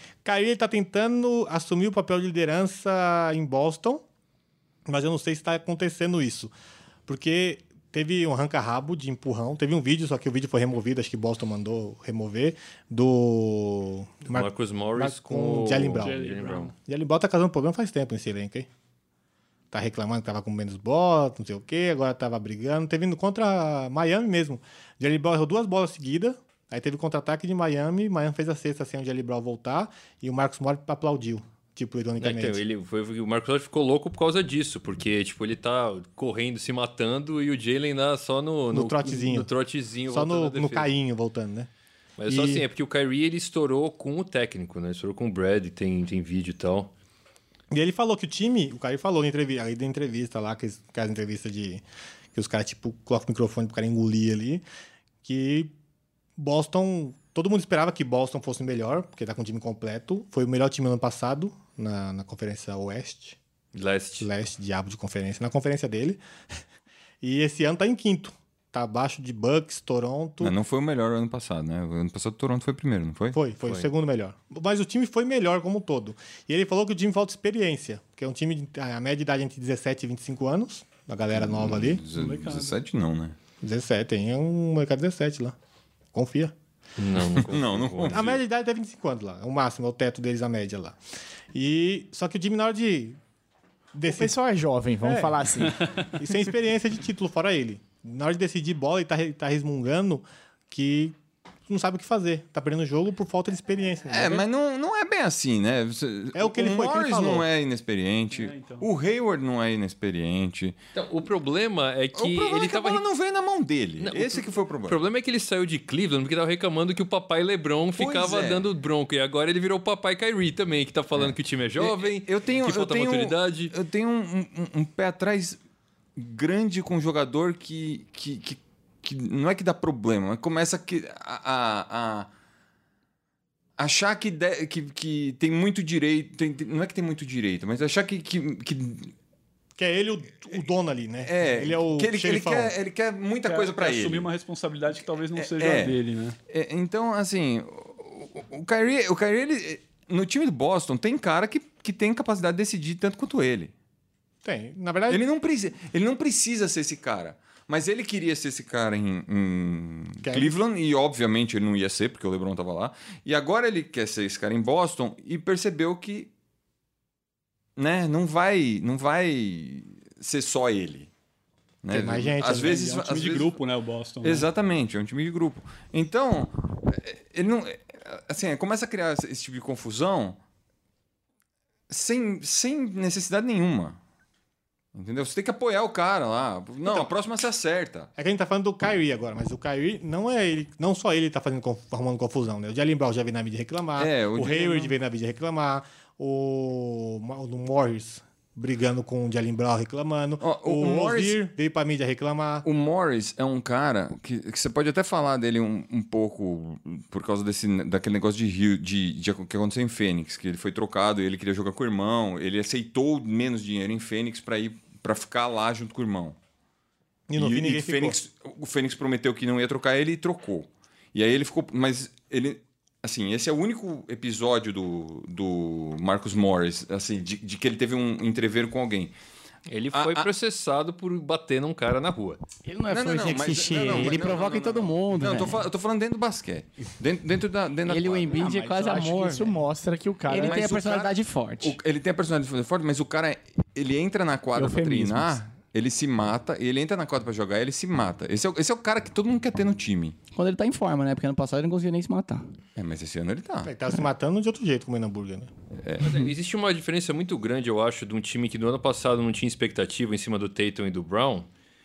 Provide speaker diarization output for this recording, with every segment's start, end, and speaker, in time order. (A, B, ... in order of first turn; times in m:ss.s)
0:00.2-0:04.0 A
0:04.9-0:06.5 A
0:07.1-0:16.2 A
0:14.3-0:16.7 B
0:16.0-0:16.7 C
0:16.7-0:18.7 A
0:19.7-0:32.6 A
0:32.2-0:40.9 B
0:38.7-0:39.5 A
0:40.1-0:41.7 A
0:42.2-0:46.9 B
0:42.3-0:42.6 A
0:47.7-0:51.8 A
0:52.3-0:54.6 A
0:55.2-0:55.7 A
0:56.4-1:03.4 A
1:03.7-1:04.3 B
1:04.2-1:06.2 A
1:07.2-1:10.5 A
1:10.4-1:13.5 D
1:13.4-1:22.0 A
1:21.3-1:23.4 D
1:22.1-1:22.8 C
1:23.6-1:25.6 A
1:26.1-1:26.5 A
1:27.0-1:28.3 B
1:27.4-1:28.4 D
1:28.1-1:31.0 A
1:31.5-1:33.2 A
1:33.9-1:34.3 A
1:34.1-1:35.8 E
1:35.0-1:35.6 A
1:35.6-1:36.1 C
1:36.1-1:41.2 A
1:41.7-1:44.4 A
1:44.1-1:50.8 D
1:46.4-1:47.5 A
1:48.3-1:48.9 C
1:50.9-1:53.0 B
1:52.2-1:55.0 D
1:54.0-2:03.7 B
1:58.0-1:58.7 D
2:01.2-2:05.6 D
2:06.2-2:12.3 D
2:13.8-2:19.1 D
2:19.8-2:22.8 A
2:21.2-2:24.3 D
2:23.5-2:26.4 C
2:25.4-2:26.0 D
2:26.5-2:33.7 D
2:34.4-2:35.2 A
2:35.1-2:46.3 D
2:40.2-2:40.5 A
2:47.8-2:51.1 D
2:51.8-2:53.6 D
2:51.9-2:52.8 A
2:52.6-2:54.5 C
2:54.2-3:00.4 D
3:01.9-3:04.0 D
3:04.9-3:08.1 D
3:06.8-3:07.1 A
3:08.2-3:22.7 A
3:14.0-3:14.9 D
3:20.4-3:21.4 D
3:22.6-3:36.4 D
3:37.3-3:38.2 A
3:37.4-3:49.1 D
3:49.7-3:52.4 B
3:49.9-3:50.3 D
3:52.7-3:55.6 F
3:52.9-3:58.7 D
3:57.9-3:59.5 F
3:58.4-4:00.7 E
4:00.3-4:01.8 F
4:00.3-4:10.2 D
4:04.6-4:05.4 E
4:10.4-4:12.5 F
4:12.8-4:13.7 D
4:13.6-4:15.5 A
4:15.7-4:16.2 D
4:16.0-4:21.5 B